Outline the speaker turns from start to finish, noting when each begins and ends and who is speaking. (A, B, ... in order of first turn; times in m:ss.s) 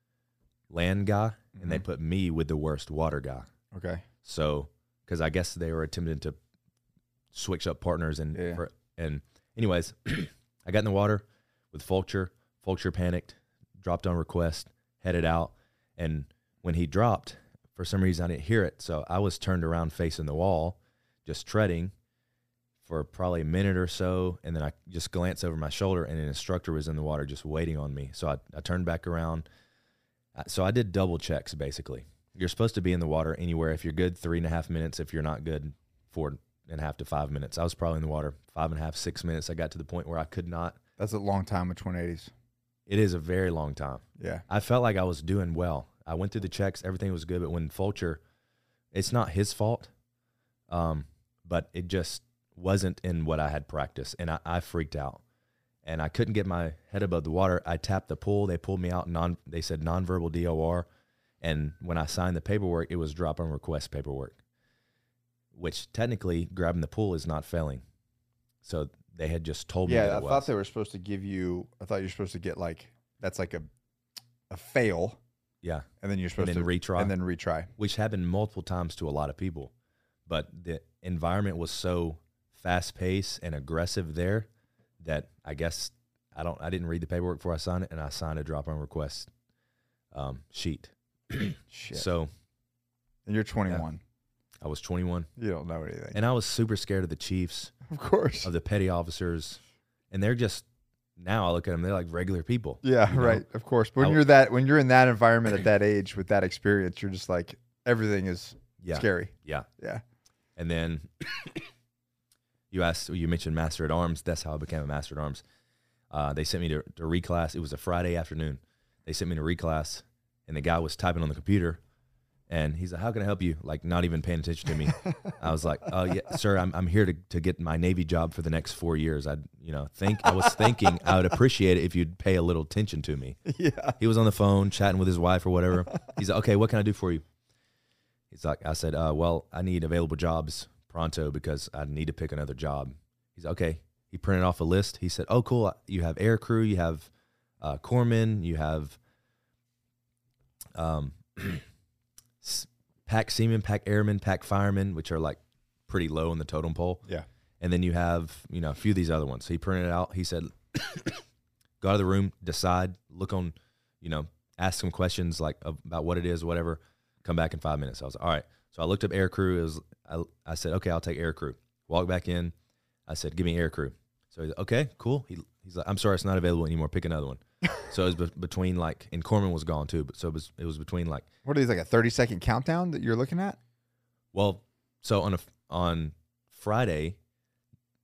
0:00.7-0:03.5 A
0:01.5-0:01.8 B
0:03.7-0:04.0 B
0:04.2-0:06.4 A
0:07.3-0:21.9 A
0:08.3-0:08.6 B
0:22.8-0:29.4 A
0:30.3-0:40.8 A
0:41.0-0:42.3 B
0:42.9-0:48.2 A
0:44.2-0:44.4 B
0:48.9-0:49.9 A
0:50.7-0:55.2 A
0:55.8-1:00.9 A
1:01.4-1:04.4 A
1:05.5-1:07.8 A
1:08.6-1:10.5 A
1:09.8-1:13.7 B
1:14.5-1:15.2 B
1:15.6-1:17.1 A
1:16.0-1:17.7 B
1:17.8-1:19.7 A
1:20.3-1:24.5 A
1:25.0-1:29.3 A
1:30.1-1:32.3 A
1:31.7-1:32.1 B
1:33.3-1:34.0 B
1:34.6-1:35.3 A
1:35.4-1:36.2 B
1:36.1-1:37.7 A
1:37.9-1:38.5 B
1:38.4-1:39.6 A
1:40.1-1:40.6 A
1:41.2-1:43.4 A
1:42.8-1:50.0 B
1:44.0-1:44.3 A
1:48.8-1:49.7 A
1:50.6-1:51.6 A
1:52.7-1:55.4 A
1:56.1-2:01.8 A
2:02.5-2:13.4 A
2:05.0-2:05.4 B
2:10.4-2:10.7 B
2:13.4-2:14.0 B
2:14.0-2:17.2 A
2:18.3-2:27.1 A
2:27.6-2:29.0 A
2:30.7-2:31.6 A
2:32.4-2:37.0 A
2:37.6-2:41.2 A
2:41.8-2:52.5 A
2:53.1-3:01.3 A
3:01.4-3:03.6 B
3:04.3-3:07.2 A